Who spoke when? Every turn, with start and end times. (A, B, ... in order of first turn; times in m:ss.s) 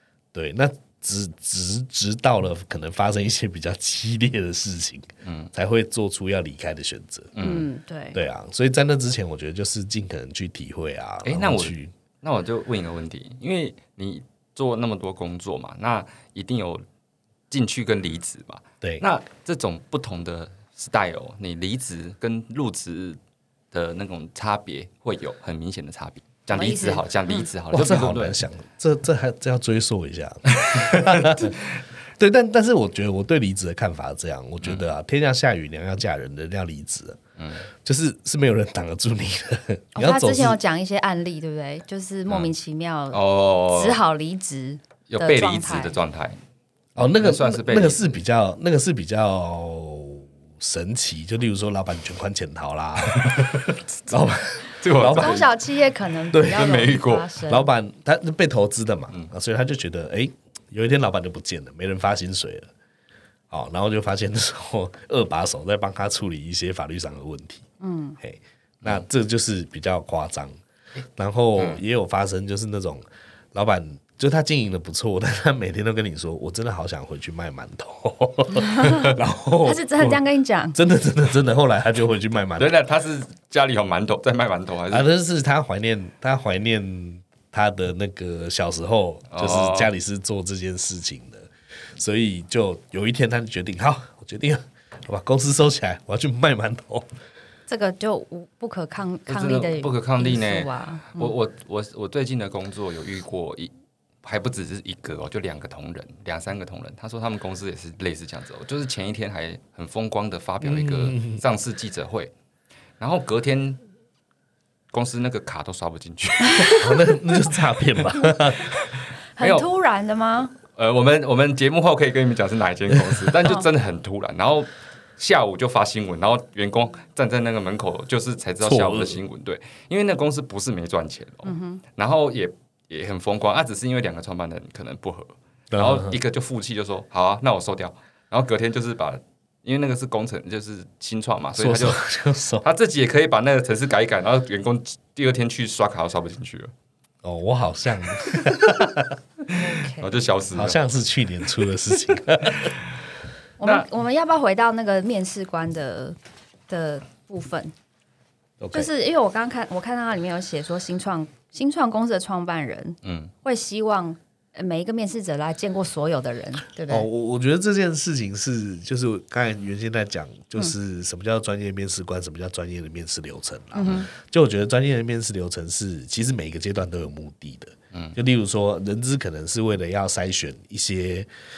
0:00.3-0:07.4 A
0:05.2-0:05.5 B
0:07.4-0:07.7 B
0:07.4-0:08.2 C
0:08.1-0:11.9 A
0:11.2-0:16.8 B
0:17.5-0:23.2 B
0:23.7-0:28.4 B
0:26.5-0:27.5 C
0:27.7-0:31.6 A
0:30.6-0:31.6 B
0:32.2-0:37.2 A
0:37.4-0:37.7 B
0:37.8-0:40.6 A
0:40.0-0:46.0 C
0:43.1-0:44.0 B
0:45.1-0:46.4 B
0:47.0-0:55.5 A
0:47.0-0:48.1 B
0:53.0-0:53.7 B
0:54.7-0:55.5 B
0:55.1-0:57.7 C
0:56.3-0:56.7 A
0:56.6-0:57.3 B
0:57.5-1:02.7 A
1:03.5-1:07.6 A
1:07.8-1:08.2 C
1:08.2-1:10.6 A
1:11.2-1:13.0 A
1:11.6-1:11.8 B
1:13.5-1:20.2 A
1:18.6-1:19.1 C
1:19.6-1:20.8 C
1:20.7-1:22.8 A
1:22.6-1:25.1 B
1:24.9-1:37.1 A
1:29.3-1:29.9 B
1:37.7-1:41.4 C
1:39.3-1:43.7 B
1:44.2-1:52.3 B
1:50.6-1:51.4 A
1:53.0-1:53.8 B
1:54.9-1:56.9 B
1:56.5-1:57.0 C
1:56.7-1:58.8 A
1:58.8-1:59.7 B
1:59.4-2:00.6 C
2:00.7-2:22.0 B
2:08.6-2:09.2 A
2:11.4-2:11.8 C
2:15.7-2:16.2 A
2:21.6-2:22.6 A
2:22.6-2:26.7 B
2:27.2-2:29.2 A
2:29.5-2:30.8 B
2:29.5-2:30.1 C
2:30.5-2:32.7 A
2:32.5-2:32.8 B
2:33.6-2:36.2 C
2:36.7-2:37.7 C
2:38.6-2:38.9 A
2:38.7-2:47.1 C
2:43.0-2:43.3 B
2:46.9-3:01.3 A
2:53.8-2:54.1 C
2:57.9-2:58.2 B